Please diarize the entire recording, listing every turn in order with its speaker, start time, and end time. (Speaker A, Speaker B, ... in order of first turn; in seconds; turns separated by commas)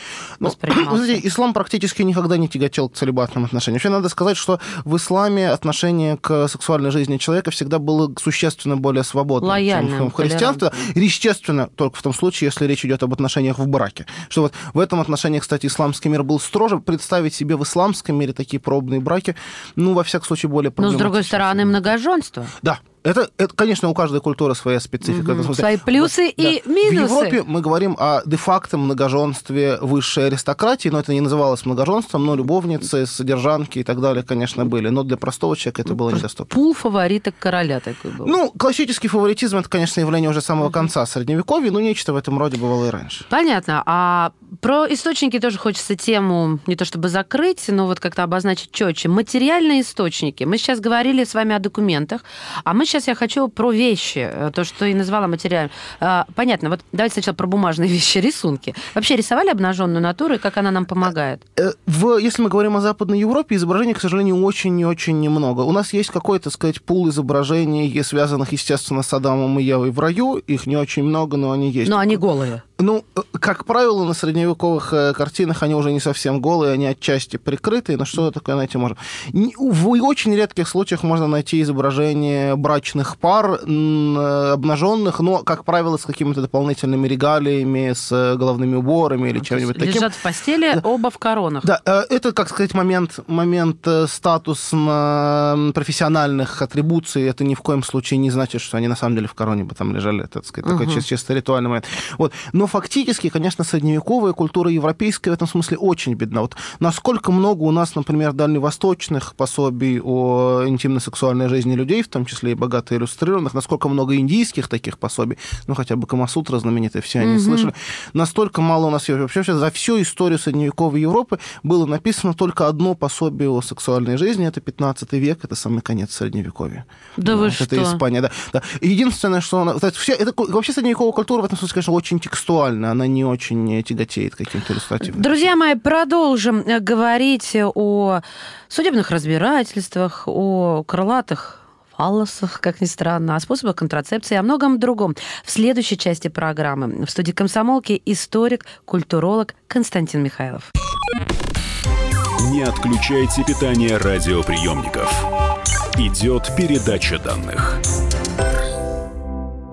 Speaker A: 0.4-21.9, Speaker B: 0.4-1.2, Speaker B: 9.4-10.7, Speaker B: 20.8-22.5, Speaker A: 22.6-36.5, Speaker B: 25.1-27.4, Speaker B: 36.1-38.3, Speaker A: 38.2-43.3, Speaker B: 43.3-61.4, Speaker A: 61.6-72.2, Speaker B: 71.8-72.6, Speaker A: 72.8-90.1, Speaker B: 89.4-91.7, Speaker A: 91.6-135.4, Speaker B: 100.6-101.0, Speaker B: 117.2-117.7, Speaker B: 127.2-128.0, Speaker B: 135.0-150.7, Speaker C: 152.4-155.3, Speaker C: 155.9-157.8